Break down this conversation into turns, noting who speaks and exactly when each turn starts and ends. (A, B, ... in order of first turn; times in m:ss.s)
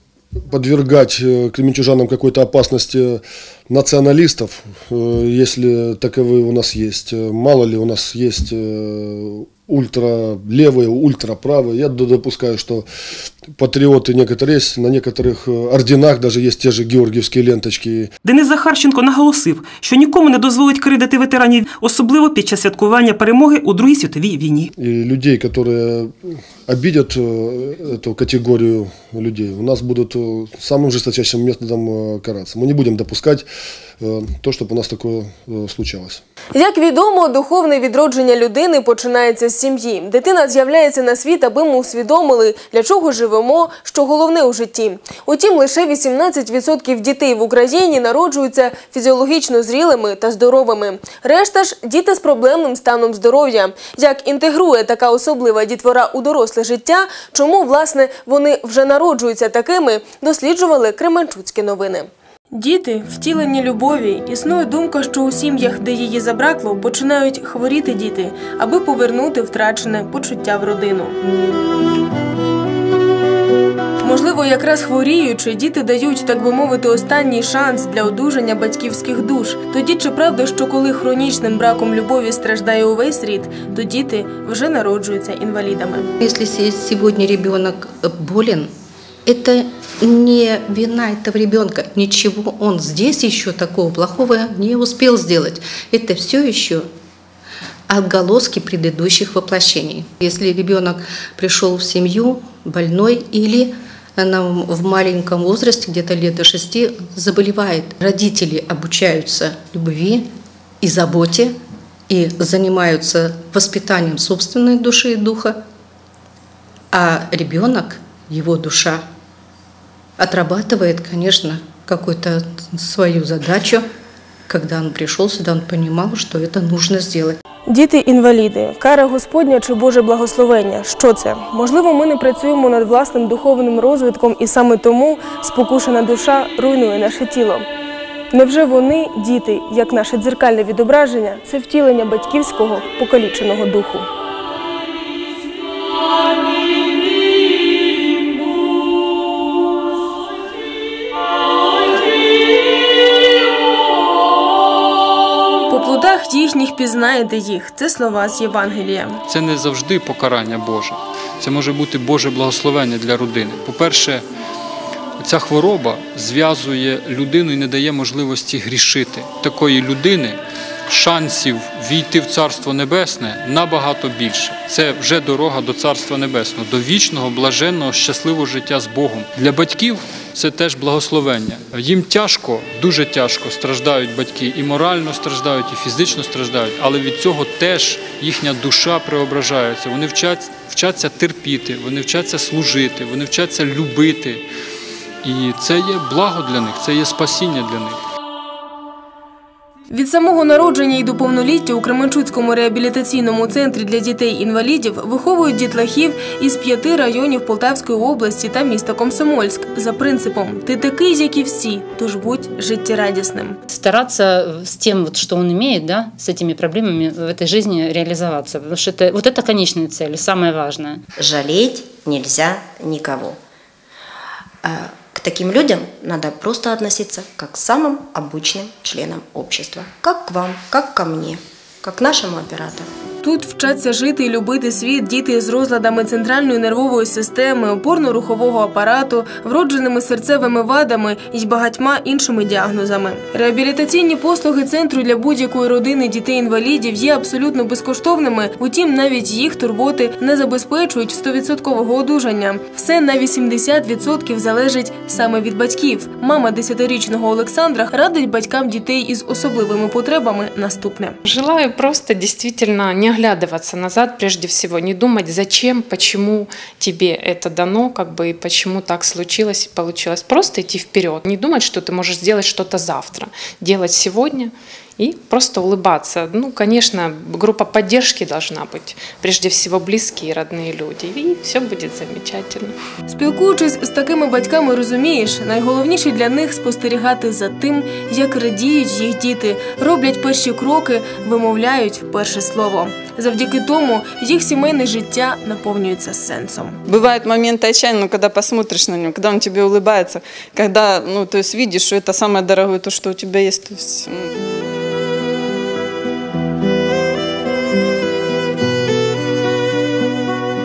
0:00.5-0:12.8 A
0:13.6-0:18.1 A
0:18.2-0:24.7 B
0:24.8-0:33.5 A
0:34.0-0:36.2 A
0:36.5-1:11.2 C
1:14.0-1:26.1 C
1:26.2-1:28.7 D
1:29.2-1:36.9 D
1:37.9-1:50.3 D
1:50.8-1:51.6 D
1:52.1-1:55.6 D
1:56.9-1:59.0 D
2:00.2-2:03.8 D
2:04.5-2:07.4 D
2:07.7-2:17.6 C
2:18.3-2:24.0 C
2:35.7-2:39.2 C
2:39.3-2:44.2 E
2:45.2-2:50.4 E
2:50.9-3:14.4 E
3:15.2-3:18.0 E
3:19.9-3:33.6 C
3:33.7-3:41.0 F
3:41.2-3:43.4 G
3:44.6-3:52.9 G
3:53.2-4:21.2 C
4:21.2-4:42.7 H
4:43.1-4:56.8 C
4:56.9-5:04.2 I